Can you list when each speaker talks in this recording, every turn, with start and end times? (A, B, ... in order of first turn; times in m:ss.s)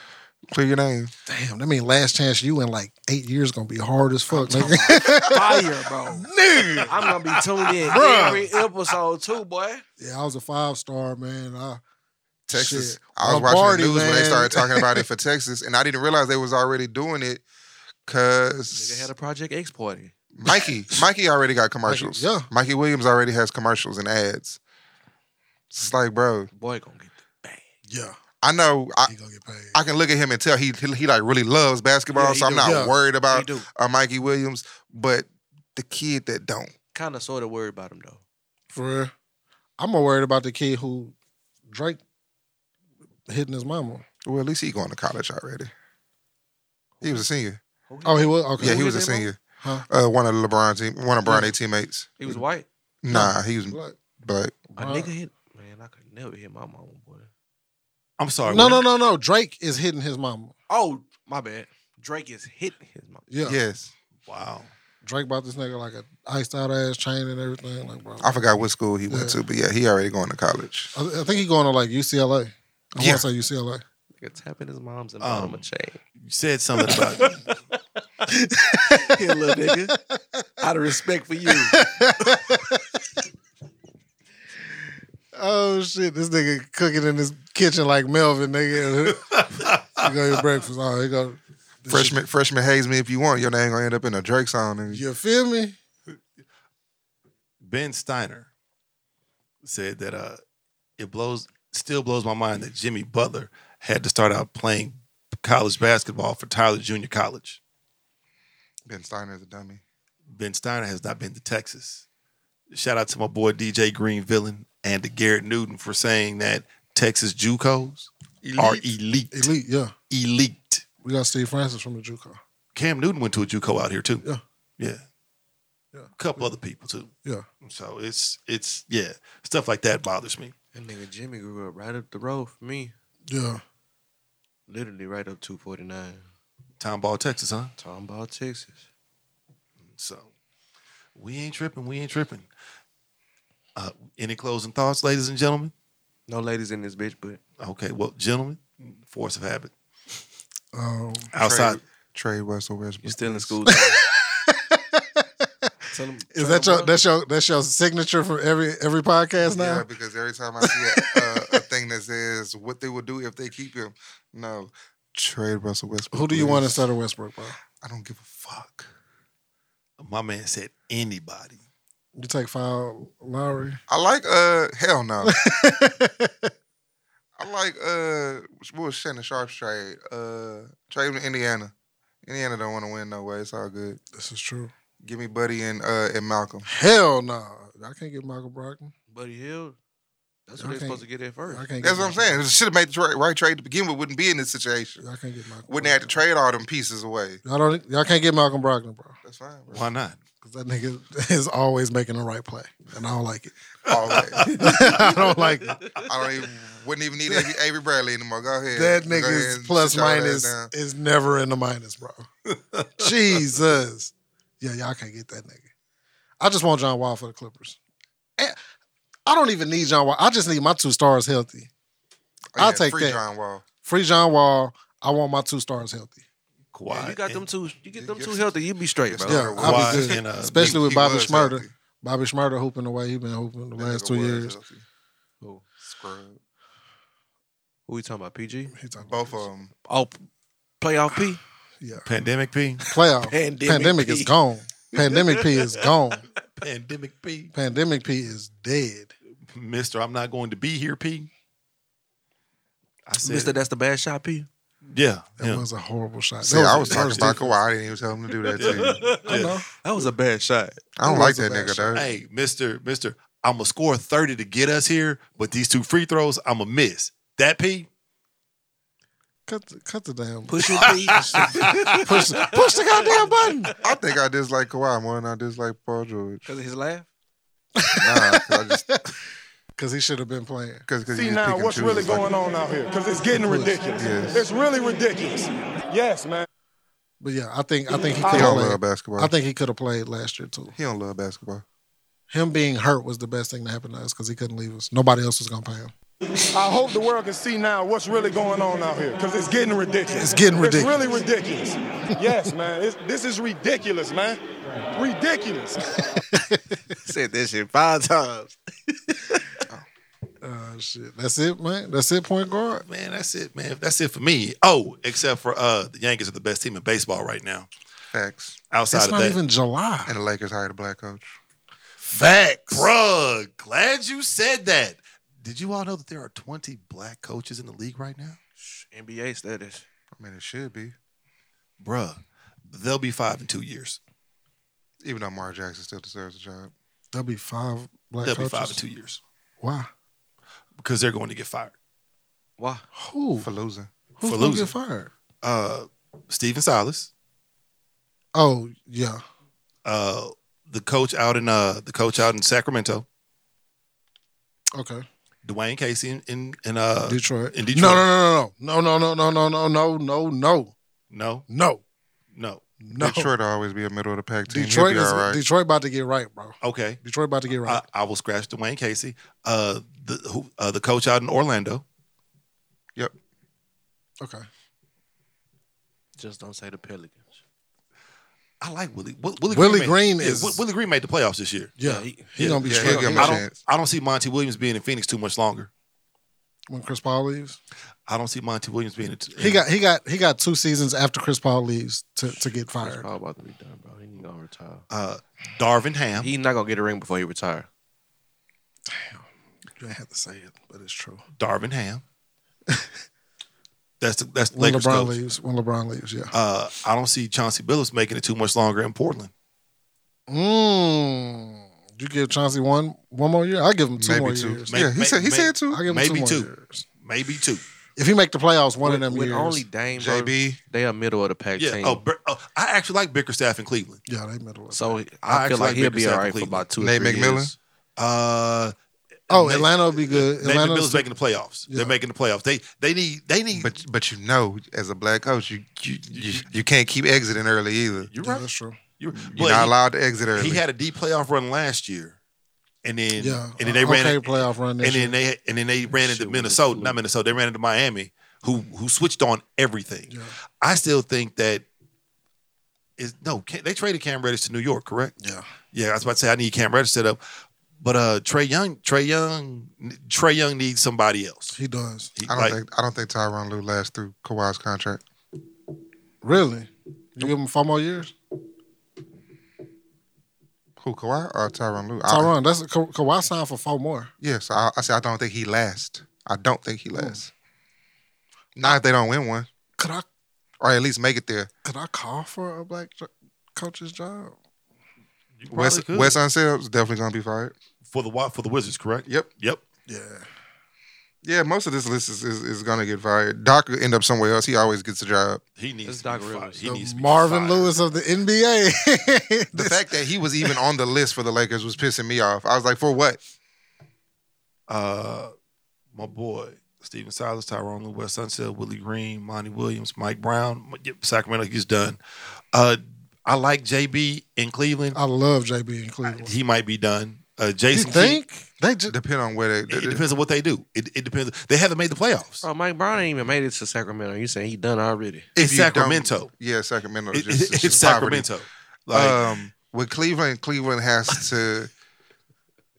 0:00.5-0:01.1 A
0:01.3-0:07.0 B
0:04.3-0:09.8 C
0:07.8-0:08.5 B
0:10.0-0:11.8 B
0:12.5-0:17.4 A
0:12.5-0:15.0 B
0:18.1-0:19.1 A
0:18.7-0:20.6 C
0:20.4-0:24.6 A
0:21.8-0:22.5 B
0:25.7-0:26.5 A
0:26.5-0:27.6 C
0:27.9-0:28.2 B
0:28.4-0:29.1 A
0:29.1-0:29.8 B
0:29.7-0:36.7 A
0:32.1-0:33.6 C
0:32.6-0:32.9 B
0:36.9-0:38.2 C
0:38.7-0:39.1 B
0:39.8-0:41.1 B
0:41.7-0:42.0 B
0:43.3-0:44.0 B
0:44.2-0:45.7 A
0:47.0-0:47.6 A
0:47.9-0:49.3 C
0:48.0-0:48.8 B
0:48.6-0:49.4 A
0:49.9-0:52.4 A
0:51.2-0:51.5 B
0:52.2-0:52.6 C
0:53.0-0:54.6 A
0:53.1-0:54.0 B
0:54.7-0:55.1 B
0:54.8-0:57.3 C
0:58.2-0:58.8 D
0:58.4-1:00.5 B
1:00.7-1:03.2 C
1:03.3-1:03.6 B
1:03.4-1:03.9 A
1:04.2-1:04.7 D
1:05.0-1:08.3 B
1:08.2-1:10.9 A
1:09.1-1:09.4 B
1:10.9-1:13.8 B
1:13.0-1:13.2 A
1:14.2-1:16.0 C
1:15.2-1:15.7 D
1:16.2-1:17.4 D
1:18.3-1:19.1 B
1:18.9-1:20.0 C
1:19.9-1:20.4 B
1:20.6-1:21.8 C
1:21.5-1:23.0 B
1:25.3-1:32.2 B
1:29.3-1:30.1 D
1:31.9-1:35.0 A
1:34.9-1:35.8 B
1:37.6-1:38.5 D
1:39.6-1:40.4 D
1:41.0-1:47.6 D
1:48.9-1:49.8 A
1:50.3-1:52.0 D
1:52.7-1:59.5 D
1:58.4-1:58.8 A
1:59.3-1:59.9 B
2:00.1-2:00.8 D
2:01.0-2:02.4 B
2:02.7-2:04.2 D
2:04.8-2:05.0 D
2:05.9-2:06.5 B
2:06.2-2:07.1 D
2:07.6-2:10.5 D
2:10.7-2:12.9 C
2:13.3-2:13.6 B
2:14.7-2:16.3 C
2:16.8-2:17.7 D
2:17.8-2:18.8 C
2:19.8-2:20.3 D
2:21.1-2:22.5 D
2:23.7-2:25.7 D
2:26.3-2:27.4 C
2:27.6-2:29.7 D
2:30.7-2:31.3 B
2:31.3-2:31.8 D
2:31.4-2:33.6 A
2:33.0-2:34.0 C
2:33.7-2:35.7 B
2:35.9-2:37.0 C
2:36.3-2:39.8 B
2:39.4-2:46.8 A
2:40.6-2:41.6 B
2:46.1-2:47.6 B
2:47.8-2:48.9 A
2:50.0-2:51.6 D
2:52.2-2:53.8 B
2:53.9-2:55.3 A
2:55.2-2:56.5 B
2:57.4-3:01.7 A
3:02.2-3:04.0 A
3:04.1-3:04.7 B
3:05.0-3:06.6 A
3:06.6-3:08.9 B
3:09.1-3:09.8 C
3:10.5-3:11.7 C
3:10.6-3:12.4 B
3:11.8-3:15.0 A
3:15.0-3:16.2 B
3:15.7-3:17.4 A
3:17.4-3:19.2 B
3:19.2-3:19.9 A
3:19.7-3:20.2 D
3:20.4-3:23.5 B
3:23.9-3:24.5 A
3:23.9-3:26.1 D
3:24.4-3:25.8 B
3:26.0-3:30.7 A
3:28.7-3:32.3 B
3:32.5-3:32.9 D
3:33.0-3:35.7 B
3:36.4-3:37.8 B
3:39.3-3:41.7 B
3:42.5-3:43.6 A
3:42.6-3:43.2 B
3:43.8-3:46.2 B
3:46.7-3:47.5 D
3:46.9-3:49.5 C
3:48.0-3:48.5 A
3:49.1-3:51.7 A
3:49.3-3:54.6 B
3:49.6-3:50.8 D
3:53.8-3:54.8 A
3:55.4-3:55.6 C
3:55.8-3:56.4 A
3:57.9-3:58.7 C
3:58.7-3:59.4 B
3:59.0-3:59.7 A
3:59.8-4:00.2 C
4:00.8-4:01.4 C
4:01.8-4:02.1 B
4:02.0-4:02.8 D
4:02.8-4:06.2 B
4:03.2-4:04.3 C
4:04.9-4:05.5 C
4:06.6-4:07.5 D
4:07.5-4:09.1 B
4:09.5-4:11.3 D
4:13.0-4:13.6 D
4:13.2-4:14.5 C
4:14.8-4:15.6 D
4:15.4-4:17.5 B
4:16.4-4:19.0 A
4:16.9-4:17.4 D
4:18.4-4:20.8 C
4:18.6-4:19.6 D
4:19.2-4:19.6 B
4:21.0-4:22.1 A
4:21.0-4:22.0 B
4:21.9-4:27.9 D
4:29.5-4:33.7 B
4:30.5-4:33.8 C
4:30.8-4:32.4 D
4:33.8-4:36.5 A
4:36.4-4:37.1 C
4:37.8-4:39.0 B
4:37.9-4:39.0 A
4:39.8-4:40.8 B
4:40.9-4:42.3 A
4:41.1-4:46.5 E
4:43.3-4:43.9 B
4:44.0-4:44.4 A
4:47.2-4:50.7 B
4:48.2-4:48.6 E
4:48.3-4:49.3 A
4:50.8-4:51.6 A
4:52.3-4:55.9 B
4:56.5-5:05.9 E
5:00.2-5:01.0 B
5:06.2-5:06.8 B
5:07.0-5:09.6 C
5:10.4-5:12.8 B
5:12.8-5:17.7 D
5:18.1-5:18.6 A
5:18.7-5:19.4 D
5:18.9-5:20.1 B
5:20.1-5:21.4 A
5:22.1-5:22.9 B
5:22.7-5:28.4 D
5:28.6-5:29.8 C
5:30.2-5:30.9 A
5:31.8-5:34.0 D
5:35.0-5:36.7 A
5:37.1-5:38.8 B
5:38.2-5:39.2 D
5:39.6-5:39.9 B
5:40.8-5:41.7 D
5:42.6-5:42.9 C
5:42.9-5:43.5 B
5:43.4-5:43.9 A
5:44.2-5:45.1 B
5:44.2-5:44.7 D
5:45.4-5:47.1 D
5:48.3-5:49.2 B
5:49.8-5:53.0 D
5:54.7-5:55.0 B
5:55.4-5:58.0 D
5:57.1-6:00.7 B
6:01.1-6:01.4 D
6:01.5-6:01.8 B
6:02.3-6:02.6 D
6:02.8-6:03.3 B
6:03.0-6:05.4 A
6:04.5-6:07.8 B
6:06.6-6:11.8 D
6:16.2-6:17.3 C
6:18.6-6:21.8 D
6:19.5-6:20.6 B
6:21.8-6:23.4 B
6:21.8-6:23.3 C
6:22.4-6:25.7 D
6:22.6-6:23.5 A
6:26.7-6:27.6 B
6:28.1-6:29.6 D
6:29.4-6:33.1 B
6:32.8-6:34.8 C
6:34.9-6:36.3 D
6:36.2-6:37.7 C
6:38.9-6:39.2 B
6:39.8-6:41.2 B
6:41.4-6:42.0 D
6:44.0-6:45.2 D
6:44.5-6:46.3 B
6:46.3-6:49.3 D
6:50.3-6:54.7 B
6:54.0-6:55.8 A
6:54.7-6:56.5 D
6:55.7-6:56.8 B
6:57.0-6:57.6 D
6:58.0-6:59.6 B
6:58.8-7:02.0 C
6:59.9-7:00.6 A
7:01.6-7:04.0 D
7:04.1-7:05.0 B
7:04.7-7:07.5 C
7:05.2-7:06.7 D
7:06.8-7:07.5 A
7:08.0-7:08.7 D
7:09.3-7:13.8 D
7:09.3-7:11.1 B
7:11.7-7:11.9 B
7:13.5-7:18.1 A
7:16.1-7:16.5 D
7:18.1-7:18.5 D
7:18.2-7:18.8 B
7:19.0-7:19.8 D
7:19.1-7:20.6 A
7:20.3-7:22.2 D
7:22.8-7:31.6 D
7:23.2-7:25.1 B
7:25.9-7:27.0 C
7:30.1-7:30.3 B
7:33.0-7:35.1 D
7:35.2-7:35.4 B
7:35.7-7:37.2 D
7:37.8-7:41.5 D
7:41.5-7:42.1 B
7:42.2-7:42.6 D
7:42.3-7:45.0 A
7:46.2-7:48.1 B
7:50.8-7:52.3 A
7:52.1-7:54.1 B
7:54.2-7:57.3 A
7:56.9-7:57.2 B
7:58.6-7:59.5 A
7:59.8-8:00.0 B
8:00.6-8:01.5 A
8:01.6-8:04.3 B
8:05.4-8:06.2 D
8:05.5-8:07.5 A
8:07.8-8:09.6 D
8:09.9-8:10.2 B
8:11.2-8:15.4 A
8:15.6-8:17.8 D
8:15.8-8:16.6 C
8:16.6-8:19.8 B
8:19.5-8:23.2 A
8:24.7-8:25.3 D
8:25.9-8:32.0 D
8:32.5-8:35.0 D
8:34.9-8:36.3 B
8:36.0-8:38.2 D
8:37.7-8:38.9 B
8:38.9-8:40.0 A
8:39.7-8:42.4 D
8:42.4-8:45.3 C
8:45.4-8:48.3 A
8:45.4-8:46.3 D
8:47.1-8:49.3 D
8:48.9-8:51.7 A